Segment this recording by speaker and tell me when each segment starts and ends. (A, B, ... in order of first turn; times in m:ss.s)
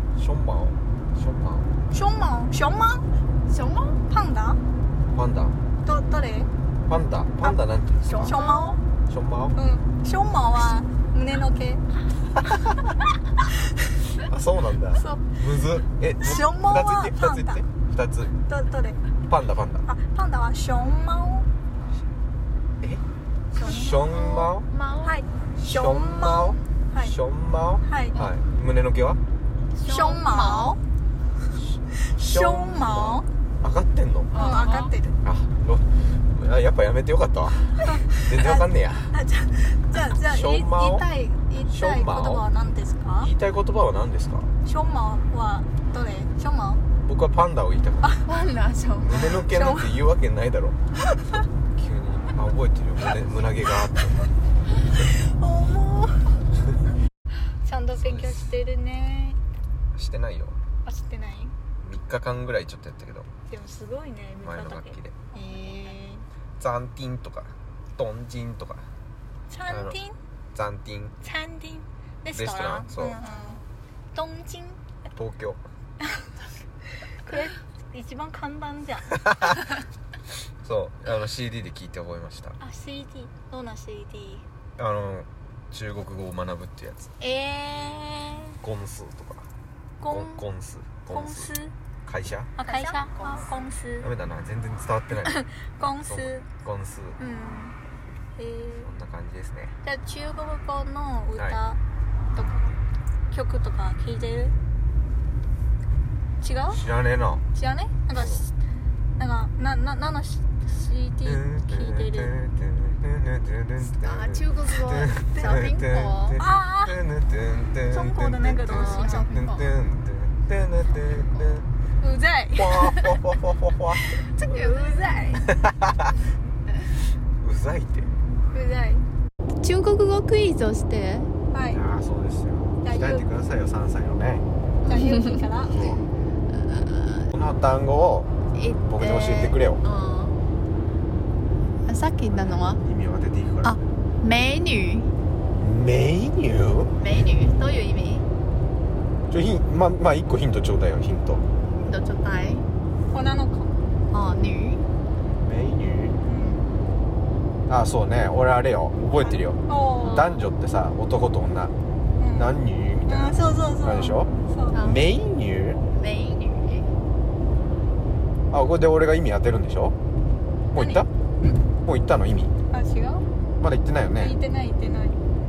0:00.2-0:01.7 A
0:01.9-0:03.0 B
0:03.5-0:04.0 C
0:04.1-0:04.6 B
0:05.1-0:05.6 A
0:05.8-0:06.5 B
0:06.9-0:08.4 A
0:08.0-0:08.8 C
0:08.2-0:08.8 B
0:09.1-0:09.6 A
0:09.5-0:11.8 B
0:14.2-0:18.3 A
0:15.0-0:15.2 B
0:16.2-0:17.6 B
0:18.4-0:19.0 B
0:19.3-0:19.8 A
0:19.8-0:21.5 B
0:23.5-0:24.1 B
0:23.6-0:24.6 A
0:23.9-0:25.2 C
0:25.0-0:27.2 B
0:25.6-0:29.2 A
0:27.8-0:28.2 B
0:29.8-0:30.8 C
0:29.8-0:30.8 B
0:31.6-0:34.3 A
0:32.0-0:33.2 B
0:34.3-0:34.9 C
0:34.3-0:35.2 B
0:35.2-0:39.1 A
0:37.9-0:43.3 B
0:40.1-0:41.1 A
0:41.7-0:42.4 A
0:43.2-0:44.5 A
0:44.6-0:46.8 B
0:47.0-0:48.2 A
0:48.2-0:49.3 C
0:49.0-0:50.8 A
0:49.4-0:49.9 B
0:51.7-0:54.2 A
0:55.0-0:56.4 B
0:57.6-0:59.4 B
0:58.0-0:58.4 A
0:59.9-1:00.6 A
1:00.8-1:01.5 B
1:01.8-1:03.3 A
1:03.5-1:06.2 B
1:04.4-1:05.2 A
1:06.6-1:08.9 A
1:09.5-1:10.1 B
1:09.7-1:10.0 A
1:10.5-1:11.1 A
1:11.2-1:13.6 B
1:12.3-1:13.2 A
1:13.2-1:13.6 C
1:14.1-1:14.8 B
1:15.1-1:15.6 A
1:17.2-1:19.2 B
1:19.3-1:19.6 A
1:20.6-1:22.6 A
1:22.6-1:24.4 B
1:24.8-1:27.1 A
1:27.2-1:28.6 B
1:28.6-1:29.5 A
1:30.0-1:30.4 B
1:30.1-1:31.5 A
1:31.1-1:31.7 B
1:32.0-1:32.5 A
1:32.6-1:34.1 B
1:32.6-1:33.6 C
1:34.0-1:35.4 A
1:35.6-1:36.4 B
1:36.0-1:37.2 A
1:37.2-1:37.8 B
1:38.4-1:38.9 B
1:38.8-1:39.7 A
1:39.8-1:41.8 B
1:42.3-1:42.7 B
1:43.3-1:44.5 B
1:46.4-1:46.8 B
1:46.7-1:47.4 A
1:47.5-1:48.5 B
1:48.1-1:48.4 A
1:49.2-1:52.4 B
1:51.2-2:01.7 A
1:53.8-1:56.4 C
1:55.3-1:55.6 B
1:56.4-1:57.0 B
1:57.9-1:59.3 B
1:58.7-1:59.7 C
2:02.0-2:03.0 B
2:02.6-2:04.0 A
2:04.1-2:05.4 B
2:04.4-2:05.4 C
2:05.4-2:06.1 A
2:07.4-2:08.1 A
2:08.5-2:09.0 B
2:09.6-2:11.3 C
2:11.5-2:11.8 B
2:11.7-2:14.4 A
2:12.8-2:13.2 B
2:14.8-2:15.8 B
2:14.8-2:15.4 C
2:15.6-2:16.0 A
2:16.5-2:17.3 C
2:17.3-2:18.3 A
2:18.5-2:20.4 C
2:18.9-2:19.8 A
2:21.9-2:22.8 C
2:22.3-2:23.8 A
2:23.6-2:25.1 C
2:25.6-2:26.9 A
2:27.0-2:28.2 C
2:29.3-2:31.4 A
2:31.8-2:32.6 C
2:33.1-2:33.7 B
2:34.1-2:34.8 C
2:35.4-2:36.2 A
2:36.2-2:36.7 B
2:37.7-2:41.7 A
2:39.2-2:40.3 B
2:40.0-2:40.5 C
2:42.2-2:44.8 B
2:42.3-2:45.8 A
2:44.7-2:45.0 C
2:45.9-2:46.9 C
2:48.5-2:49.9 A
2:50.7-2:51.1 A
2:50.8-2:51.6 B
2:51.8-2:52.5 A
2:52.7-2:53.2 B
2:53.6-2:54.3 A
2:54.2-2:55.2 B